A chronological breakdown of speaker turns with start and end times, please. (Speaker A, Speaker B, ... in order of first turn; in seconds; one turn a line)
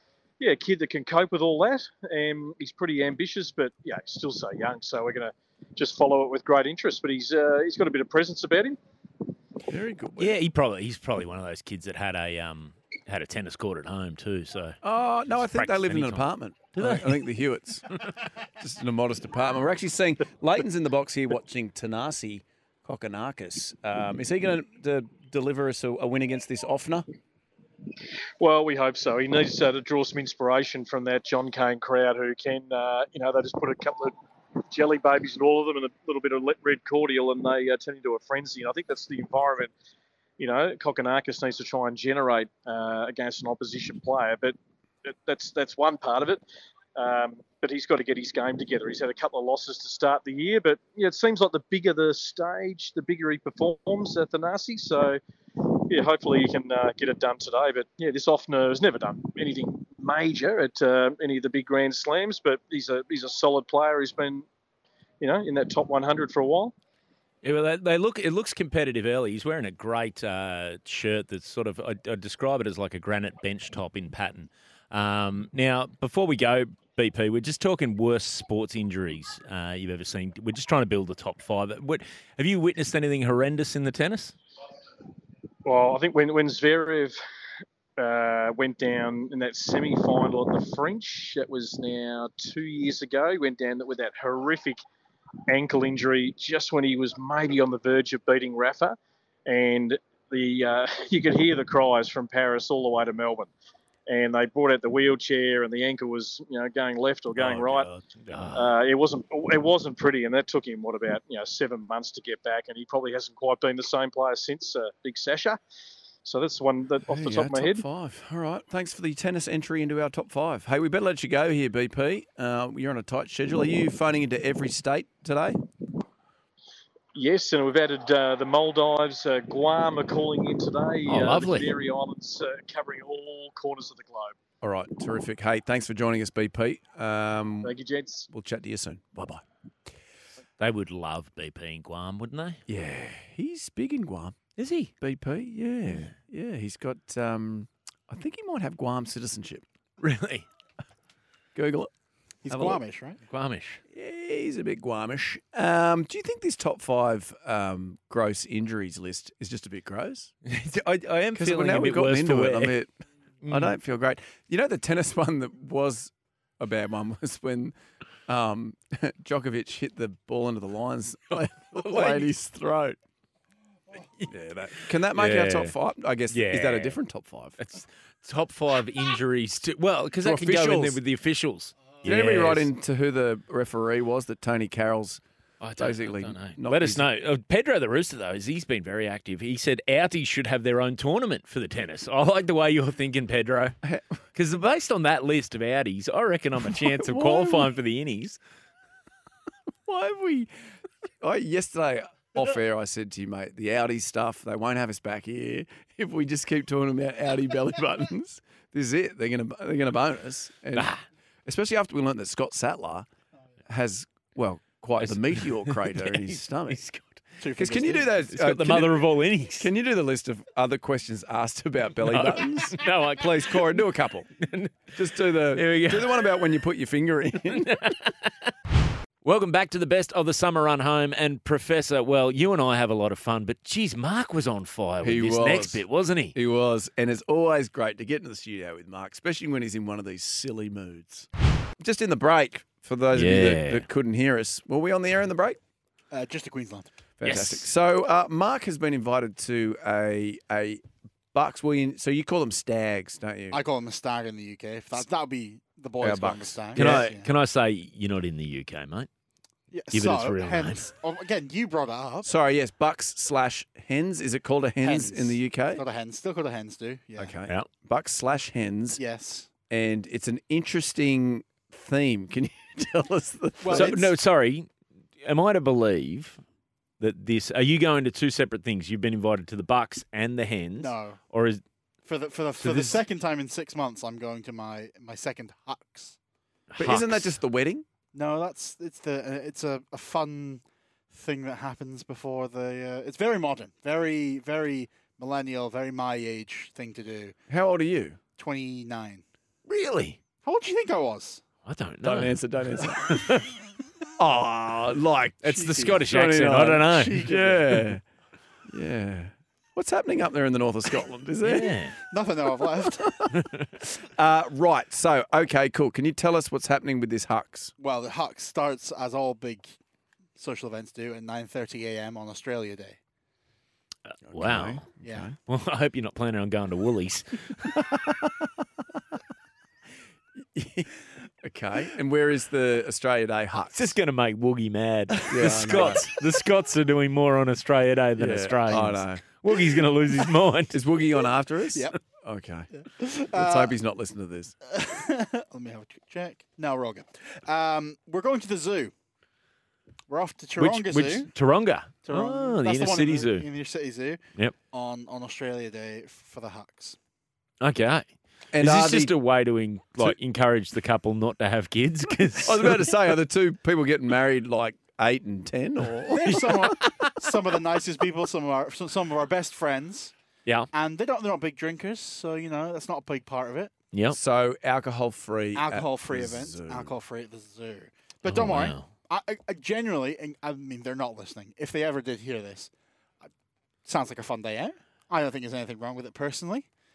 Speaker A: 0.4-8.8
Speaker B: 9.7-10.3
Speaker C: 10.2-17.3
Speaker B: 14.8-27.1
Speaker A: 28.4-34.1
Speaker A: 34.7-39.7
Speaker A: 40.4-46.4
Speaker A: 47.0-55.2
Speaker A: 55.9-64.5
Speaker A: 65.2-66.7
Speaker C: 67.4-84.3
Speaker A: 85.7-87.2
Speaker A: 88.0-94.8
Speaker A: 95.5-103.5
Speaker A: 104.1-107.9
Speaker C: 107.4-108.7
Speaker A: 108.5-115.6
Speaker A: 116.2-117.8
Speaker B: 117.1-125.6
Speaker A: 127.1-134.3
Speaker C: 131.1-131.7
Speaker B: 134.6-137.8
Speaker A: 137.6-138.3
Speaker B: 138.3-139.4
Speaker C: 140.6-142.6
Speaker B: 142.7-144.4
Speaker C: 144.6-144.9
Speaker B: 145.0-149.7
Speaker C: 150.0-150.5
Speaker B: 151.6-151.9
Speaker D: 152.4-153.2
Speaker B: 152.5-152.8
Speaker C: 153.3-153.8
Speaker B: 153.9-160.3
Speaker C: 160.4-162.8
Speaker B: 161.3-162.9
Speaker C: 163.4-163.8
Speaker B: 163.5-173.0
Speaker C: 171.7-172.3
Speaker B: 174.3-177.6
Speaker C: 174.8-175.8
Speaker C: 176.3-177.0
Speaker C: 177.6-182.7
Speaker B: 180.2-181.0
Speaker B: 182.0-185.2
Speaker C: 185.6-193.8
Speaker B: 185.8-187.1
Speaker B: 193.8-194.1
Speaker C: 194.3-198.4
Speaker B: 196.6-197.7
Speaker B: 199.9-200.5
Speaker B: 201.2-210.9
Speaker C: 210.8-211.0
Speaker B: 211.5-213.1
Speaker B: 213.7-216.8
Speaker C: 215.0-217.2
Speaker D: 217.4-218.1
Speaker B: 217.6-219.1
Speaker C: 217.9-219.7
Speaker B: 219.6-224.3
Speaker C: 222.1-223.8
Speaker C: 224.4-226.2
Speaker B: 224.9-227.9
Speaker C: 227.5-228.5
Speaker C: 229.2-236.3
Speaker B: 235.0-235.8
Speaker B: 236.3-245.6
Speaker C: 243.1-243.9
Speaker D: 246.1-246.9
Speaker B: 247.2-253.6
Speaker C: 247.2-247.7
Speaker D: 253.5-257.3
Speaker B: 256.0-257.0
Speaker C: 256.8-259.1
Speaker D: 259.7-262.3
Speaker C: 259.9-260.8
Speaker B: 262.2-265.8
Speaker D: 264.8-267.4
Speaker B: 267.2-269.0
Speaker D: 269.0-269.5
Speaker B: 269.7-274.1
Speaker D: 273.6-274.0
Speaker C: 273.7-274.7
Speaker C: 275.2-276.4
Speaker C: 277.0-281.6
Speaker D: 280.8-281.2
Speaker D: 282.1-286.2
Speaker C: 282.6-283.0
Speaker C: 286.7-287.3
Speaker B: 286.8-287.9
Speaker D: 288.1-297.4
Speaker B: 297.5-298.2
Speaker D: 298.4-299.2
Speaker C: 299.7-300.2
Speaker D: 300.4-301.4
Speaker C: 301.6-303.5
Speaker B: 302.0-303.4
Speaker B: 304.2-308.0
Speaker C: 305.4-307.3
Speaker D: 305.6-306.0
Speaker D: 307.2-307.8
Speaker B: 308.7-311.8
Speaker C: 311.4-312.0
Speaker D: 312.1-313.2
Speaker B: 312.6-313.3
Speaker C: 313.3-313.7
Speaker B: 313.8-317.7
Speaker D: 317.8-319.8
Speaker D: 320.4-323.0
Speaker C: 324.1-324.9
Speaker B: 324.3-325.4
Speaker D: 325.0-325.3
Speaker C: 325.5-327.7
Speaker B: 327.6-328.5
Speaker B: 330.4-333.9
Speaker C: 333.7-340.8
Speaker B: 335.3-336.0
Speaker B: 338.2-339.2
Speaker B: 340.7-342.7
Speaker D: 342.7-343.8
Speaker B: 343.3-344.6
Speaker D: 344.6-348.9
Speaker D: 350.1-351.3
Speaker C: 350.6-353.5
Speaker D: 352.1-354.2
Speaker D: 354.7-357.0
Speaker C: 357.6-362.9
Speaker B: 358.5-359.1
Speaker B: 362.3-366.5
Speaker C: 366.1-367.2
Speaker D: 366.2-370.1
Speaker D: 370.7-373.7
Speaker C: 373.9-374.2
Speaker B: 374.1-376.9
Speaker D: 375.6-382.7
Speaker C: 378.3-378.9
Speaker D: 383.9-386.7